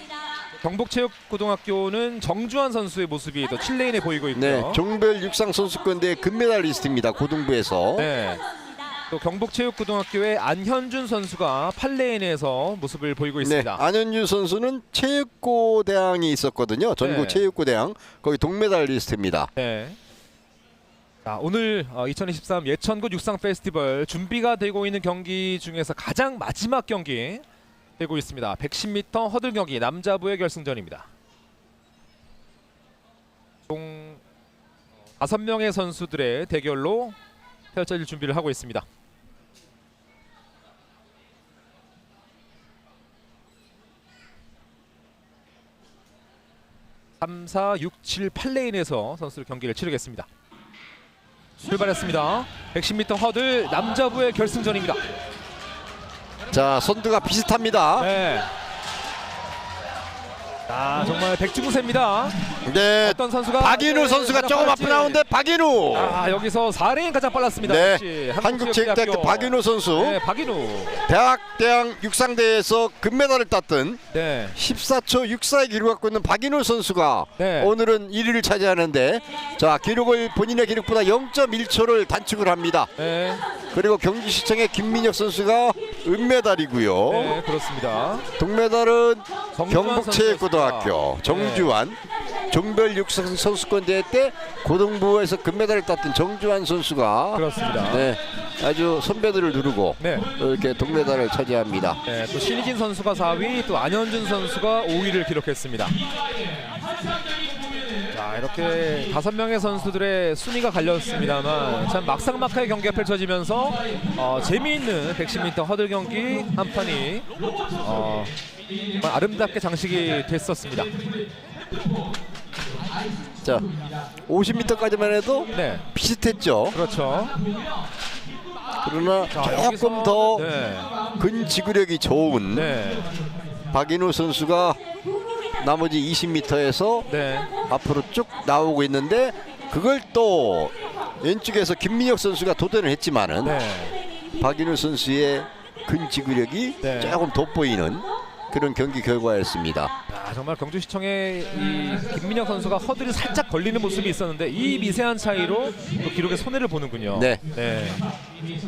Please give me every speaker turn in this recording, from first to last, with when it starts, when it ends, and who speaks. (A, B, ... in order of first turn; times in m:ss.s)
0:00.6-0:04.8 A
0:04.3-0:08.1 B
0:08.0-0:08.4 A
0:09.1-0:13.8 A
0:13.4-0:19.5 B
0:17.0-0:17.4 A
0:19.6-0:20.0 A
0:21.2-0:27.4 A
0:28.0-0:31.1 A
0:33.7-0:34.2 A
0:35.2-0:37.2 A
0:37.7-0:38.8 A
0:47.2-0:50.3 A
0:51.6-0:55.0 A
0:56.5-0:58.1 B
0:58.0-0:58.5 A
1:00.7-1:02.3 A
1:02.6-1:06.2 B
1:03.0-1:05.2 A
1:05.9-1:11.0 A
1:07.6-1:10.2 B
1:11.0-1:14.0 B
1:14.1-1:14.6 A
1:14.5-1:22.9 B
1:17.4-1:17.7 A
1:23.0-1:23.4 A
1:23.7-1:27.4 B
1:27.1-1:28.3 A
1:28.4-1:32.0 B
1:29.6-1:31.7 A
1:32.5-1:42.0 B
1:37.3-1:38.1 A
1:40.0-1:40.3 A
1:42.0-1:46.0 A
1:48.1-1:57.3 A
1:57.8-1:58.3 A
1:59.0-2:00.9 A
2:04.3-2:06.8 B
2:05.5-2:05.8 A
2:06.7-2:07.4 A
2:08.8-2:10.5 B
2:09.3-2:10.9 A
2:11.1-2:12.7 B
2:12.5-2:13.1 A
2:13.7-2:14.8 B
2:15.6-2:17.1 B
2:17.1-2:17.5 A
2:17.6-2:23.5 B
2:23.4-2:24.0 A
2:24.4-2:29.9 B
2:26.8-2:27.2 A
2:30.1-2:38.0 A
2:37.1-2:37.4 B